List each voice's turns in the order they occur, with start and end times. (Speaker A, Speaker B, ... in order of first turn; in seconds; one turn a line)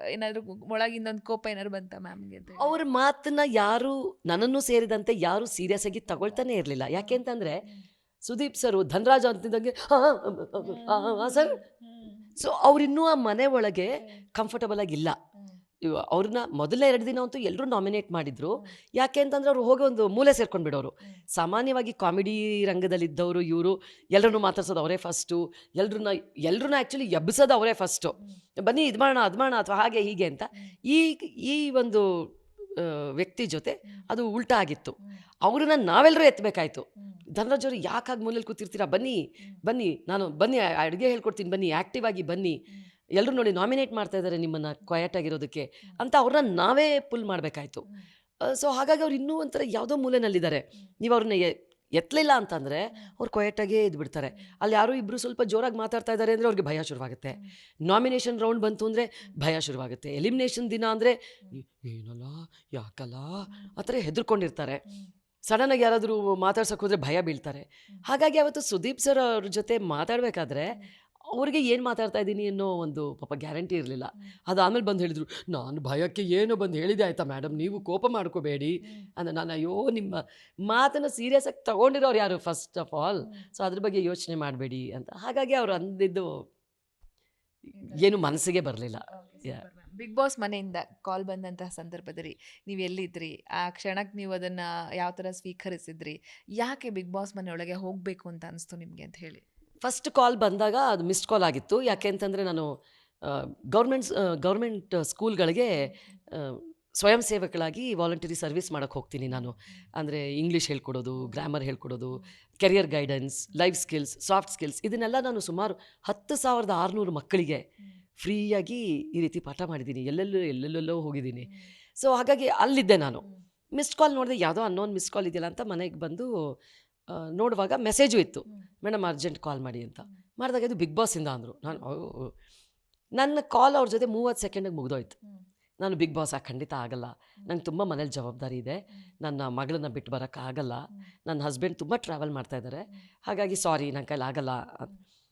Speaker A: 0.1-2.7
Speaker B: 2.6-7.6
Speaker B: 8.3-11.6
Speaker A: 10.6-12.2
Speaker B: 12.4-15.2
Speaker B: 15.8-42.5
Speaker B: 43.1-47.8
Speaker B: 48.4-64.8
Speaker B: 65.5-70.7
Speaker B: 71.3-86.4
Speaker B: 87.7-89.6
Speaker A: 87.8-88.3
Speaker A: 89.1-99.4
Speaker B: 99.8-102.7
Speaker B: 103.2-117.6
Speaker B: 118.2-126.3
Speaker B: 127.1-132.3
Speaker B: 133.2-135.2
Speaker B: 135.8-144.9